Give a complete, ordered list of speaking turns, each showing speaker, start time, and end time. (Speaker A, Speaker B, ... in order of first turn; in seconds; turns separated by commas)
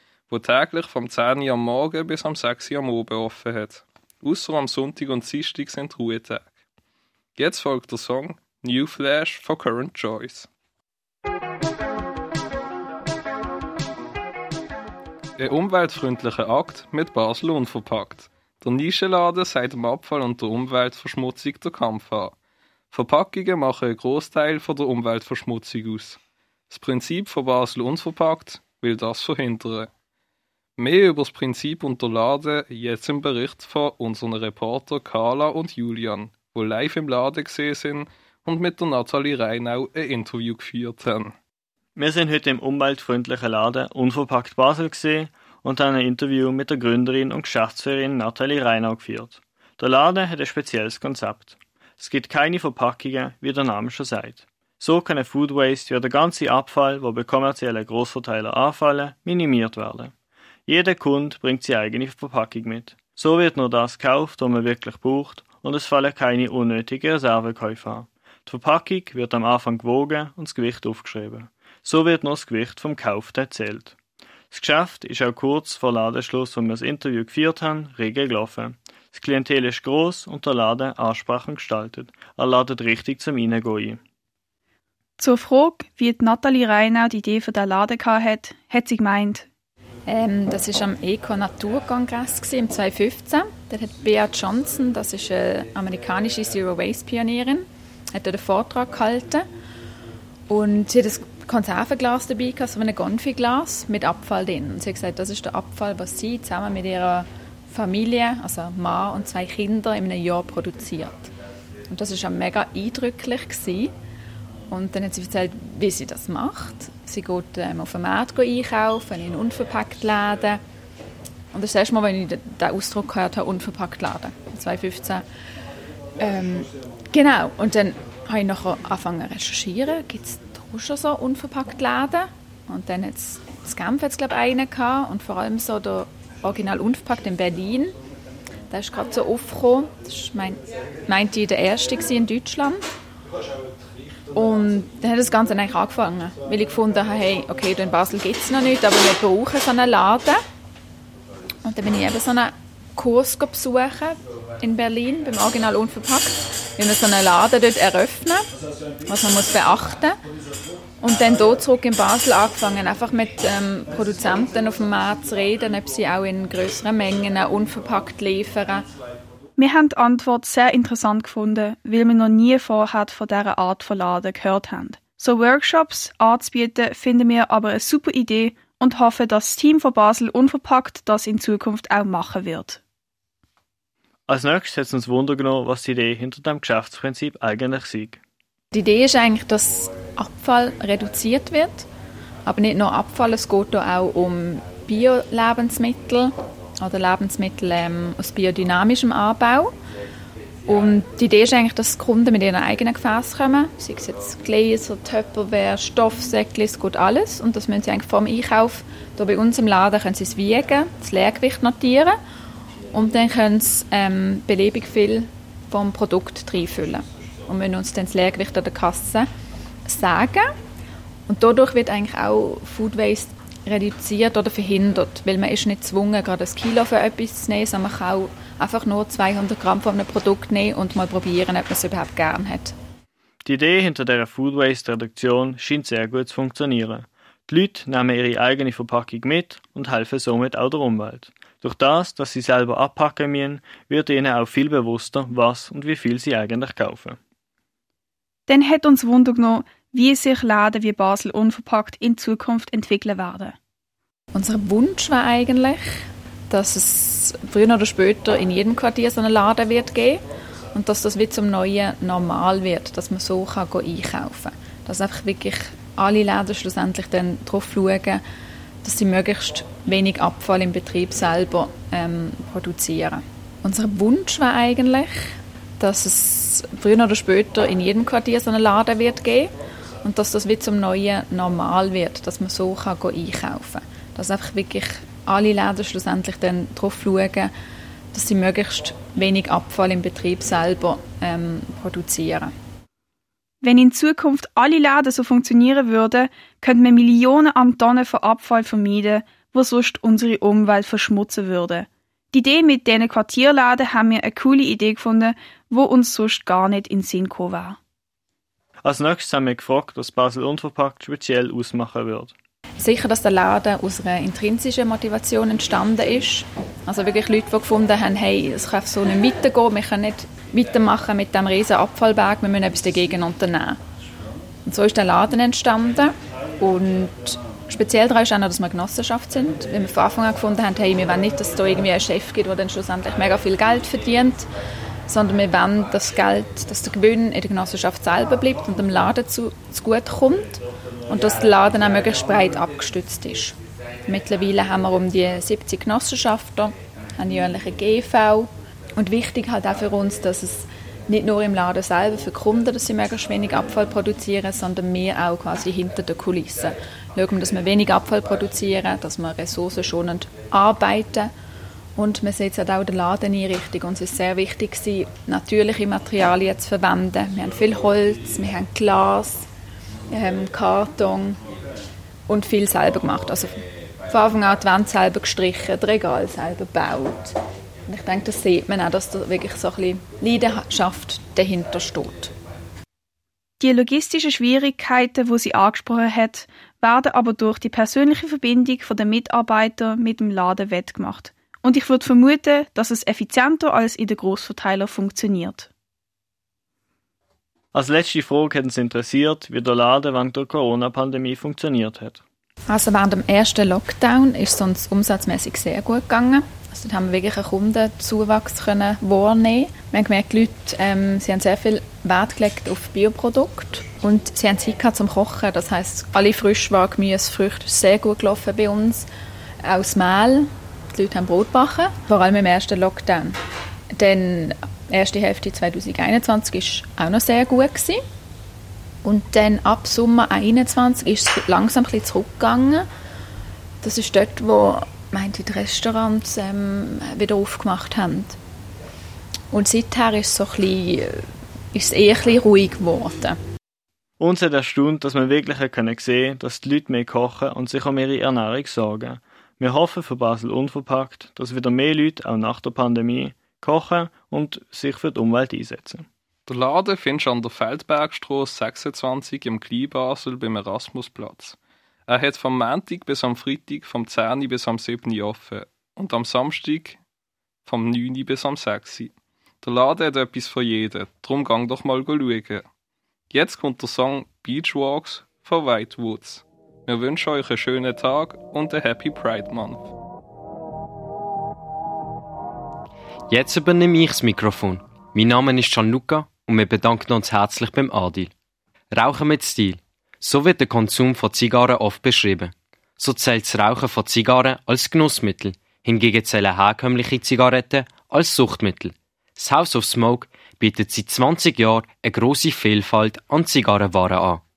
Speaker A: 0.3-6.5, Speaker A: 7.4-10.5, Speaker A: 15.4-22.3, Speaker A: 22.9-26.2, Speaker A: 26.7-29.9, Speaker A: 30.8-41.3, Speaker B: 42.0-60.1, Speaker B: 60.7-73.9, Speaker B: 74.5-84.0, Speaker C: 85.2-89.5, Speaker D: 90.1-99.5, Speaker D: 100.5-111.3, Speaker D: 111.9-113.9, Speaker D: 114.7-120.6, Speaker D: 121.5-125.2, Speaker D: 126.2-137.9, Speaker D: 138.7-142.8, Speaker D: 144.3-150.4, Speaker D: 151.6-158.4, Speaker D: 159.1-160.2, Speaker D: 161.0-168.8, Speaker C: 169.6-182.8, Speaker B: 184.3-188.2, Speaker D: 188.7-191.8, Speaker D: 192.4-199.7, Speaker D: 200.7-212.2, Speaker D: 212.9-219.3, Speaker D: 219.9-220.4, Speaker D: 221.3-232.7, Speaker B: 233.4-247.2, Speaker C: 248.5-253.5, Speaker D: 254.3-255.9, Speaker D: 256.5-260.2, Speaker D: 260.7-268.2, Speaker D: 268.8-279.5, Speaker D: 280.0-287.5, Speaker D: 288.1-292.5, Speaker C: 293.6-307.8, Speaker B: 308.8-312.3, Speaker D: 312.8-323.8, Speaker D: 324.6-334.5, Speaker D: 335.1-340.5, Speaker D: 341.1-361.3, Speaker D: 361.9-369.4, Speaker D: 370.1-371.4, Speaker D: 372.3-377.4, Speaker D: 377.9-382.3, Speaker C: 383.6-395.7, Speaker B: 397.7-402.2, Speaker D: 402.7-419.1, Speaker D: 419.6-423.4, Speaker D: 423.9-428.0, Speaker D: 429.0-432.8, Speaker D: 433.8-438.4, Speaker D: 439.5-443.4, Speaker B: 444.2-456.1, Speaker A: 456.5-461.6, Speaker A: 462.1-467.0, Speaker A: 467.7-472.6, Speaker A: 473.3-479.9, Speaker E: 483.3-488.3, Speaker E: 488.9-504.4